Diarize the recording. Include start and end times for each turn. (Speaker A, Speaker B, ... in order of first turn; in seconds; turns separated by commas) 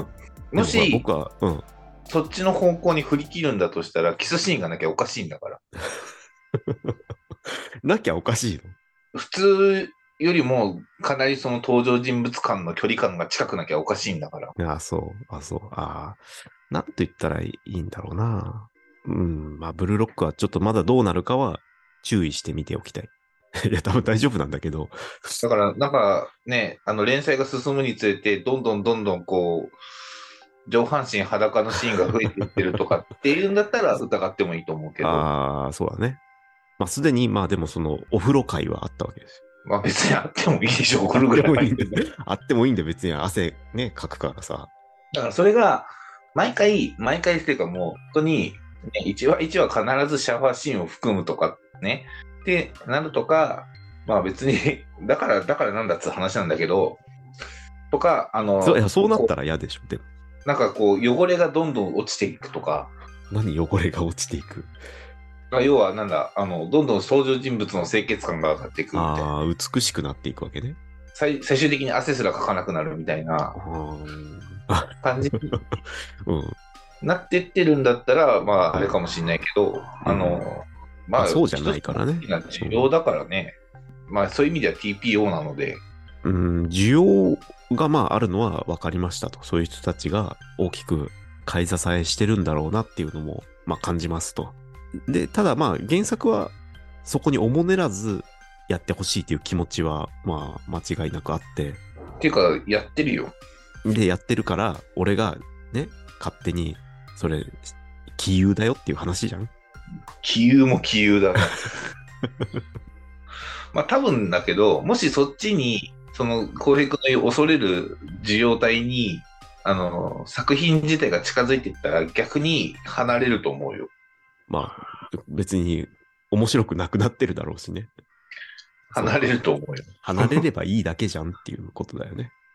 Speaker A: 0.5-1.0, Speaker B: 0.6-1.7, Speaker A: 2.1-5.6, Speaker B: 6.7-6.9, Speaker B: 7.5-8.8, Speaker A: 9.1-14.5, Speaker B: 14.6-23.1, Speaker B: 23.6-25.4, Speaker A: 25.4-29.7, Speaker A: 30.7-35.2, Speaker B: 35.0-36.2, Speaker B: 36.8-39.4, Speaker A: 39.6-42.0, Speaker B: 41.1-44.7, Speaker A: 45.1-57.0, Speaker A: 57.9-59.3, Speaker B: 58.6-60.0, Speaker A: 60.4-62.9, Speaker B: 63.3-64.7, Speaker A: 65.5-69.3, Speaker B: 68.9-70.8, Speaker A: 71.1-73.6, Speaker B: 73.5-75.7, Speaker A: 75.0-75.5, Speaker B: 76.2-76.5, Speaker A: 77.0-83.5, Speaker B: 80.0-80.5, Speaker B: 81.2-82.9, Speaker A: 84.1-85.8, Speaker B: 86.2-94.6, Speaker B: 95.1-101.8, Speaker A: 102.2-103.3, Speaker B: 103.8-109.5, Speaker A: 110.2-111.8, Speaker A: 113.7-123.9, Speaker B: 124.5-127.9, Speaker A: 128.9-130.4, Speaker B: 128.9-129.2, Speaker B: 130.0-132.3